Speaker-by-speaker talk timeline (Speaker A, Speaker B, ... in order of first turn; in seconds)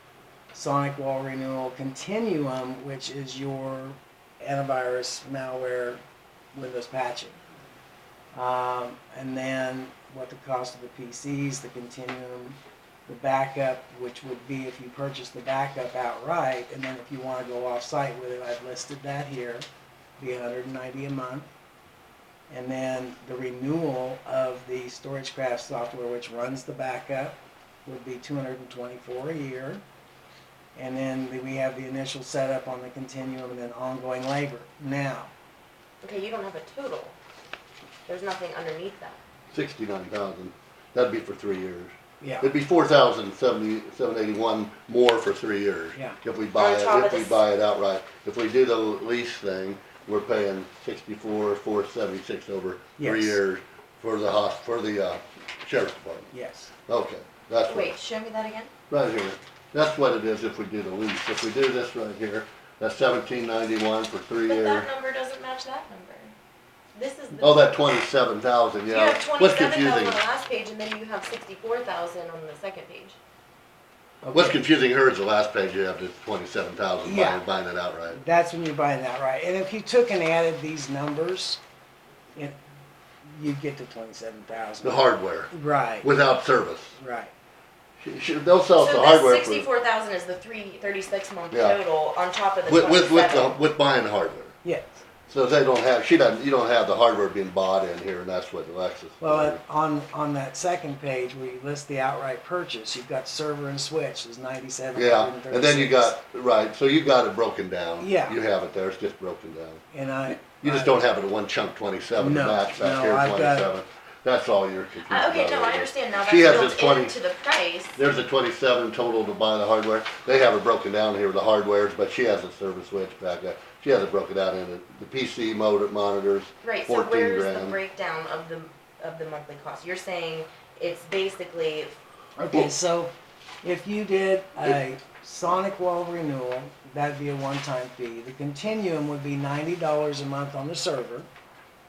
Speaker A: 0.5-6.0, 6.5-7.4, 8.3-19.6, 20.2-21.5, 22.5-29.8, 30.7-35.3, 42.2-42.5, 53.0-53.4, 56.3-56.7, 74.2-74.6, 77.0-77.4, 78.1-81.6, 83.2-86.1, 87.0-87.3, 94.6-95.0, 99.2-106.1, 108.0-108.4, 109.9-111.0, 112.2-113.7, 132.4-141.3
Speaker B: 36.0-37.1, 38.1-39.2, 46.5-47.4, 57.6-58.7, 64.5-66.3, 66.9-67.9, 68.9-73.2, 88.8-93.6, 115.1-118.0, 126.6-131.9
Speaker C: 39.5-56.3, 56.9-58.0, 58.9-64.9, 67.3-70.2, 74.3-78.2, 84.8-87.0, 88.0-89.7, 91.5-91.8, 92.6-94.5, 95.3-99.6, 104.9-109.8, 110.6-117.1, 118.0-127.8